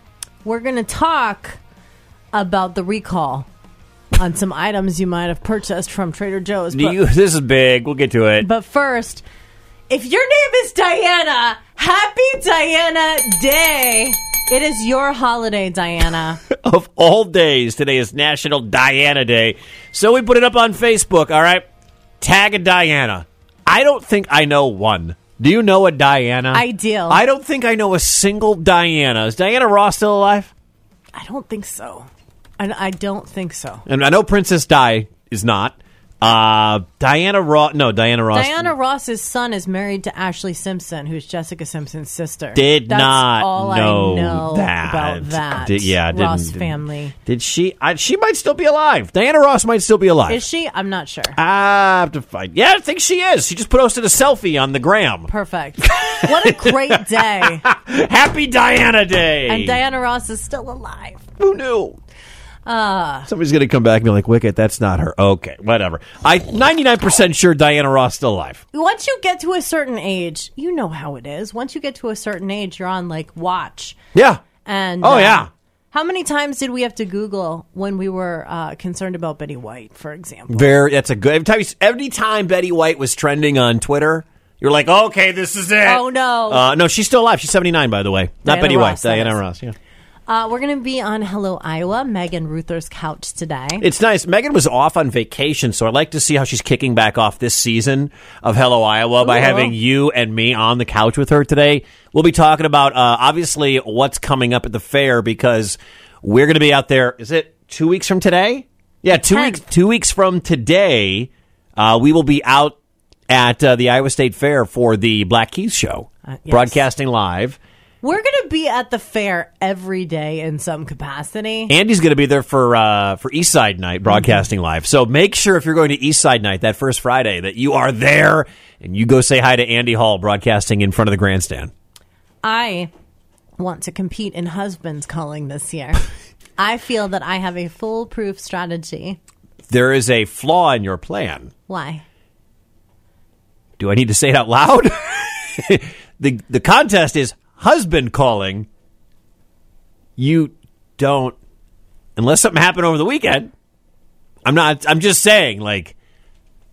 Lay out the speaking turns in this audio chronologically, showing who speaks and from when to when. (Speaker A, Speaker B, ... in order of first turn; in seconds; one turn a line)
Speaker A: 0.4-1.6
Speaker A: 2.3-3.5
Speaker A: 4.1-7.0
Speaker B: 6.7-8.5
Speaker A: 8.4-9.2
Speaker A: 9.9-16.4
Speaker B: 16.5-21.6
Speaker B: 22.2-30.5
Speaker A: 26.5-27.2
Speaker A: 31.1-32.1
Speaker A: 32.6-33.8
Speaker B: 33.9-38.7
Speaker A: 38.3-47.1
Speaker B: 42.5-50.4
Speaker A: 50.3-51.4
Speaker B: 51.4-55.3
Speaker A: 55.3-57.6
Speaker B: 55.8-59.8
Speaker A: 59.5-61.2
Speaker B: 61.4-62.0
Speaker A: 62.6-63.3
Speaker B: 63.3-68.6
Speaker A: 68.7-74.0
Speaker B: 74.1-74.4
Speaker A: 74.6-80.8
Speaker B: 75.0-75.5
Speaker B: 80.5-89.7
Speaker A: 85.8-86.6
Speaker A: 88.4-89.4
Speaker A: 90.3-93.8
Speaker B: 93.8-112.8
Speaker A: 99.2-99.7
Speaker A: 109.1-109.6
Speaker B: 113.3-117.6
Speaker A: 116.3-116.8
Speaker A: 118.0-121.7
Speaker B: 121.7-131.7
Speaker A: 124.1-124.4
Speaker A: 132.4-132.9
Speaker A: 133.6-136.0
Speaker A: 136.6-139.2
Speaker B: 139.7-141.5
Speaker A: 141.7-142.0
Speaker B: 143.8-148.7
Speaker B: 150.2-151.3
Speaker B: 152.2-153.5
Speaker B: 154.4-155.9